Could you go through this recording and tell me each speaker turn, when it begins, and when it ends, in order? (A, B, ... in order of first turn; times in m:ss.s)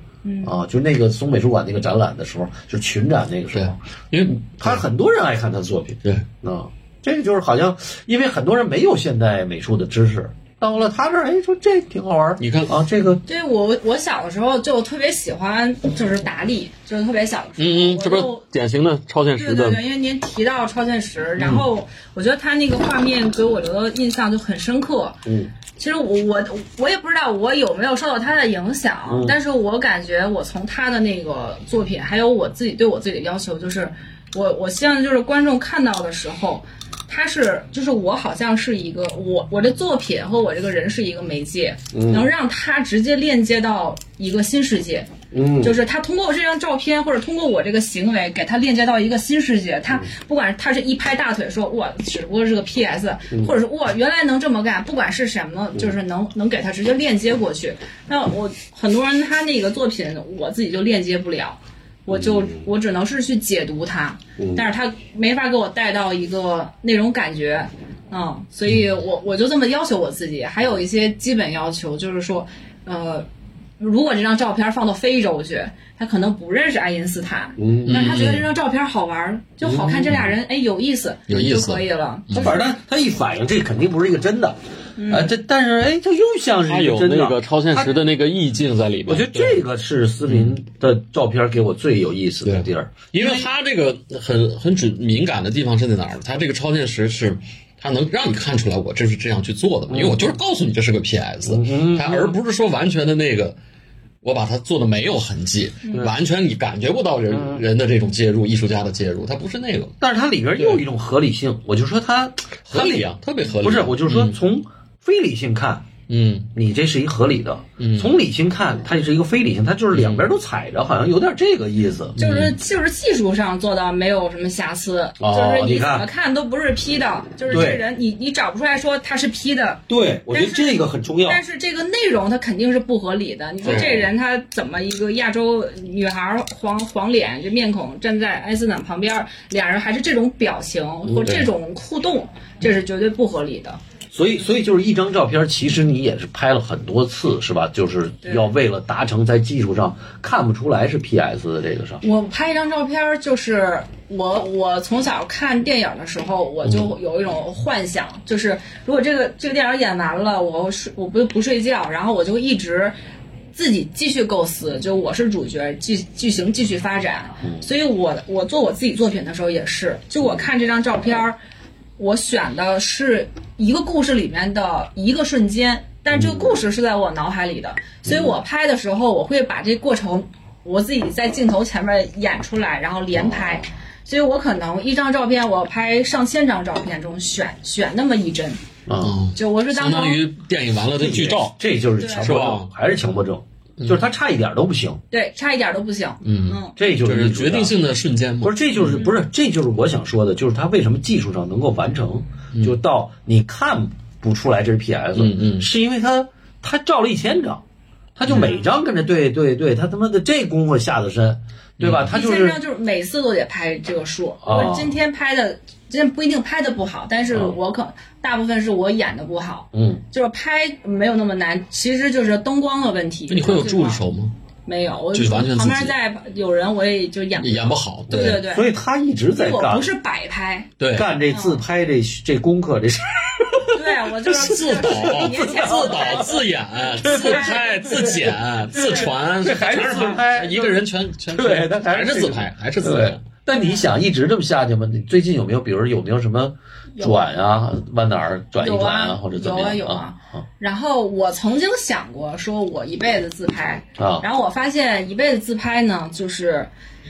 0:00.2-0:00.5 A
0:00.4-0:03.8 B
0:03.5-0:04.8 C
0:04.4-0:13.2 B
0:12.4-0:12.8 C
0:13.3-0:18.4 A
0:17.6-0:19.8 C
0:19.4-0:25.2 A
0:25.2-0:25.5 B
0:25.8-1:13.2 A
0:29.1-0:29.4 B
0:41.9-0:42.3 B
0:45.3-0:45.8 B
1:02.1-1:02.7 B
1:04.4-1:04.7 B
1:13.8-1:22.6 A
1:17.6-1:18.3 B
1:17.8-1:18.5 C
1:19.6-1:20.3 B
1:21.3-1:22.6 C
1:22.4-1:28.0 B
1:25.0-1:25.3 A
1:26.6-1:29.6 C
1:29.1-1:33.5 B
1:30.2-1:30.5 C
1:32.4-1:43.6 C
1:39.9-1:40.4 B
1:41.4-1:42.4 B
1:44.2-1:49.9 C
1:45.8-1:46.1 A
1:50.0-1:53.1 B
1:50.6-1:50.8 C
1:52.7-1:54.4 C
1:53.6-1:55.8 B
1:56.1-1:56.5 C
1:56.5-2:02.2 B
1:57.8-1:58.1 C
1:59.9-2:00.2 C
2:02.2-2:02.5 C
2:02.2-2:23.8 A
2:05.2-2:06.1 B
2:07.5-2:07.8 B
2:09.9-2:11.4 B
2:13.6-2:14.1 B
2:13.6-2:14.1 C
2:21.1-2:21.5 C
2:24.1-2:32.0 B
2:32.0-2:42.9 A
2:43.5-2:51.4 A
2:52.0-3:08.6 A
2:56.1-2:56.6 B
2:58.0-2:58.4 B
3:03.1-3:03.7 B
3:08.9-3:09.2 B
3:09.0-3:11.5 C
3:09.3-3:10.2 A
3:10.9-3:15.0 B
3:12.0-3:12.4 A
3:12.2-3:12.7 C
3:15.1-3:16.7 A
3:16.2-3:19.0 C
3:16.8-3:17.7 B
3:18.4-3:27.6 B
3:25.1-3:25.7 C
3:28.2-3:32.6 B
3:28.3-3:28.5 C
3:28.3-3:28.6 A
3:31.8-3:32.1 C
3:32.1-3:44.0 A
3:34.4-3:35.0 B
3:37.3-3:37.6 B
3:39.7-3:40.0 B
3:43.3-3:44.3 C
3:44.6-3:48.6 A
3:45.1-3:45.9 C
3:47.4-3:48.4 C
3:48.1-3:49.9 B
3:49.3-3:50.7 A
3:50.8-3:51.1 C
3:50.9-3:53.7 B
3:51.3-3:51.6 A
3:53.7-3:58.2 A
3:54.3-4:03.2 C
3:54.5-3:56.4 B
3:57.0-4:10.4 B
3:58.7-4:00.2 A
4:03.5-4:03.9 A
4:07.0-4:07.2 A
4:08.6-4:16.7 A
4:14.0-4:14.2 B